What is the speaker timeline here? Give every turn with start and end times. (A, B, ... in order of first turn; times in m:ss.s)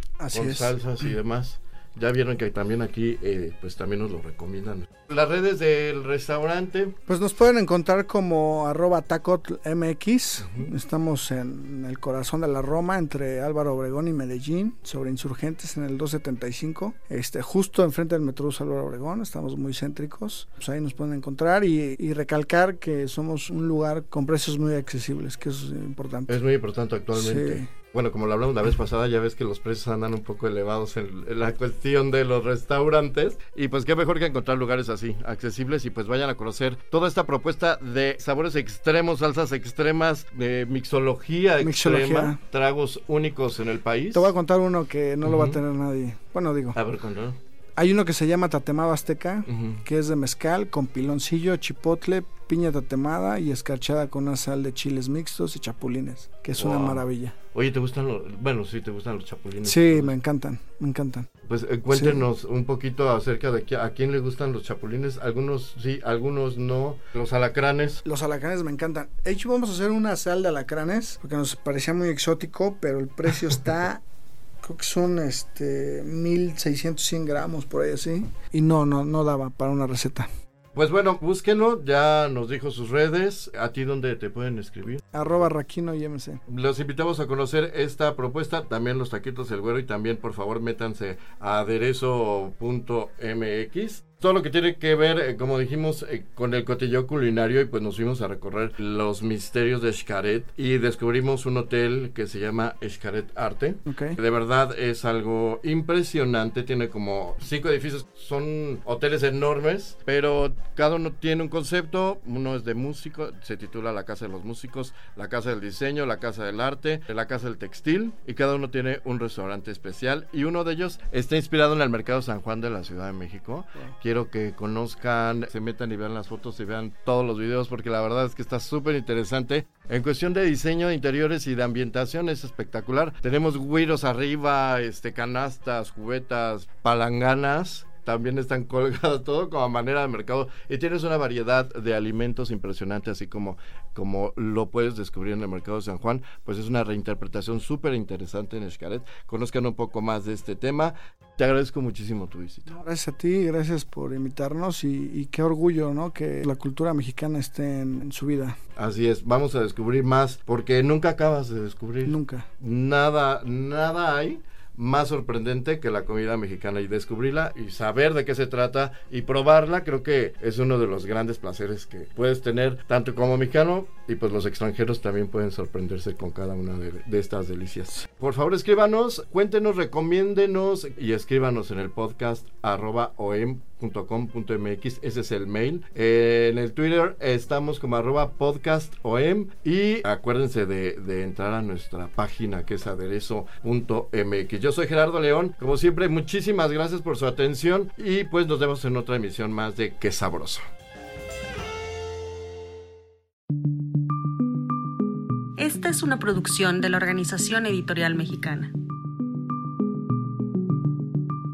0:00.2-0:01.1 A
0:00.3-0:07.0 B
0:07.1-0:26.4 A
0:10.4-0:10.7 B
0:26.3-0:44.3 B
0:27.1-0:27.7 A
0:41.6-0:42.4 A
0:44.1-0:46.8 A
0:45.2-0:45.6 B
0:46.8-0:47.4 B
0:47.8-0:57.4 A
0:49.5-0:49.8 B
0:56.6-1:00.1 B
0:59.6-1:01.3 A
1:01.5-1:08.0 B
1:01.9-1:02.3 A
1:08.0-1:14.0 A
1:14.6-1:20.3 A
1:20.8-1:25.4 B
1:25.1-1:26.4 A
1:26.5-2:32.8 B
1:43.9-1:44.2 A
2:32.7-2:38.6 A
2:38.8-3:20.6 B
2:42.0-2:42.5 A
3:25.6-3:28.7 C